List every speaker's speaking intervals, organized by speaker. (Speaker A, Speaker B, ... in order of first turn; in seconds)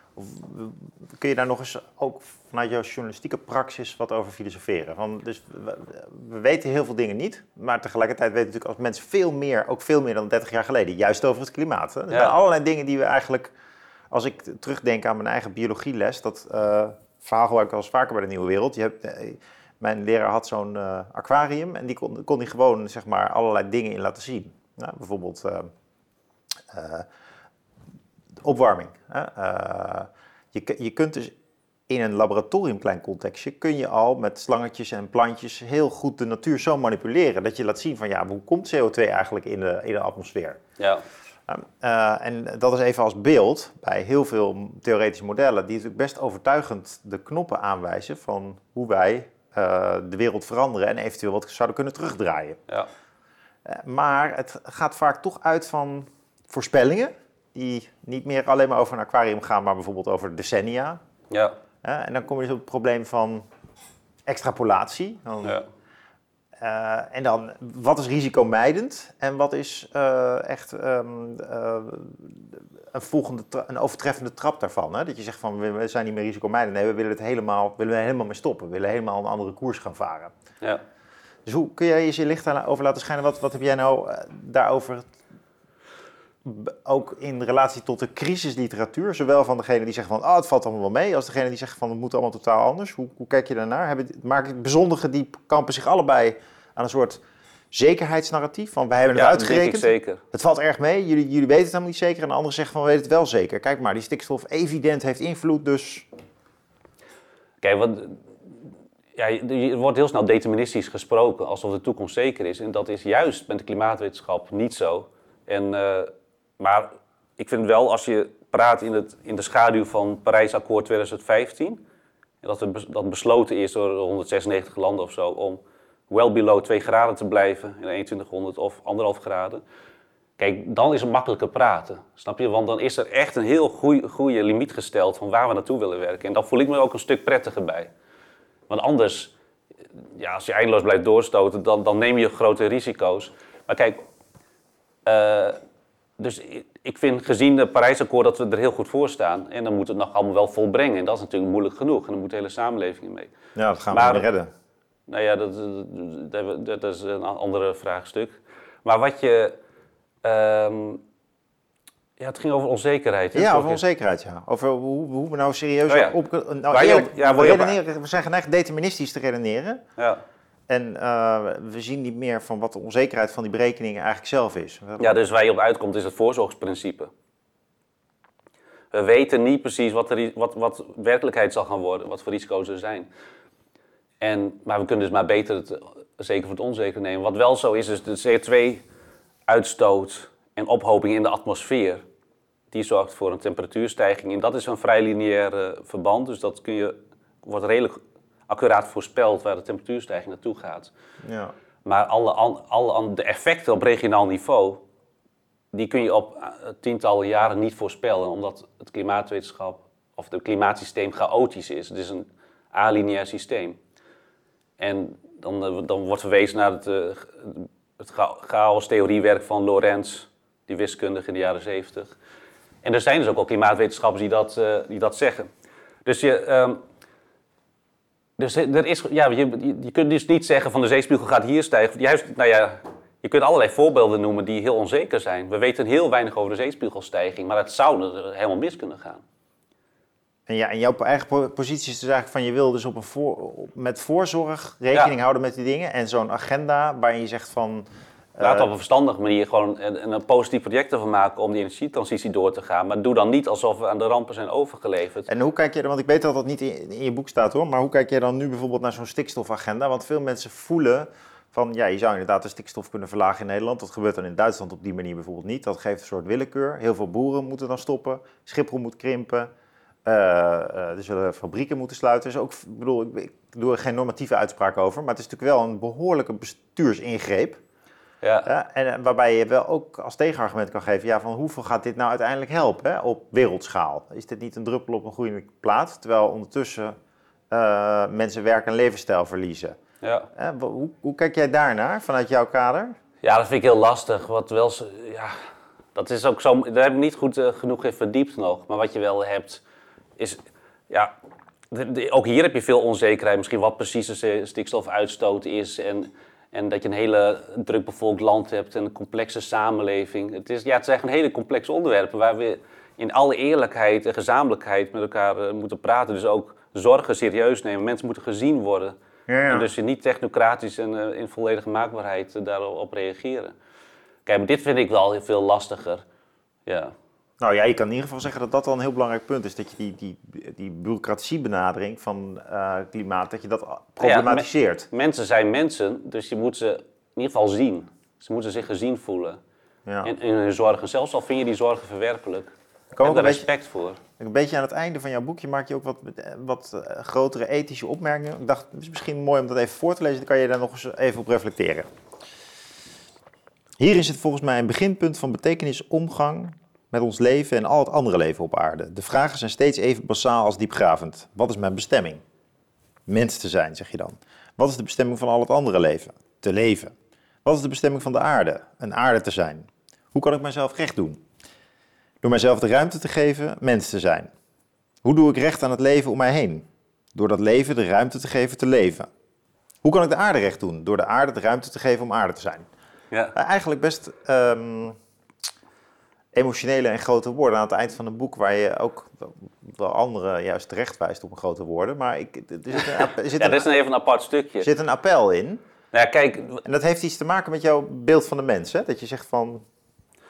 Speaker A: 0.2-13.5, 14.1-25.7, 26.7-27.1, 28.4-31.3, 31.9-40.6, 41.5-52.6, 53.6-61.0, 61.8-63.5, 64.3-65.6, 66.6-80.3, 81.5-85.1, 86.5-97.2, 97.7-106.1, 153.6-154.5, 163.3-169.8, 170.7-175.1, 201.2-201.5, 240.5-248.7, 255.3-269.5, 270.1-277.6, 278.4-287.0, 287.5-289.8, 290.4-293.0, 319.3-319.7, 327.4-334.9, 339.9-340.1, 342.9-343.5, 344.2-351.9, 353.8-362.2, 363.1-366.9, 367.4-371.2, 372.2-374.3, 375.0-379.1, 379.8-382.7, 383.4-385.0, 386.3-393.7, 394.6-395.6, 396.6-399.6
Speaker B: 40.8-41.0, 61.3-61.6, 99.2-100.2, 107.6-108.2, 109.2-121.8, 122.4-129.6, 130.4-137.9, 138.7-139.3, 140.1-144.0, 145.1-145.6, 146.2-153.3, 153.9-154.3, 155.1-159.6, 160.2-161.0, 162.2-163.8, 165.9-166.2, 166.7-167.8, 175.0-177.1, 178.9-183.1, 184.2-188.8, 189.5-192.0, 192.7-200.9, 201.8-204.8, 205.7-213.8, 214.8-222.1, 222.8-225.5, 226.1-226.8, 228.4-239.2, 248.4-255.3, 278.2-278.5, 290.0-290.3, 293.2-295.4, 295.9-299.6, 300.2-301.1, 301.7-319.0, 319.5-323.5, 324.3-326.0, 326.7-326.9, 334.0-339.4, 340.0-342.5, 343.0-344.0, 392.7-394.7, 395.9-396.6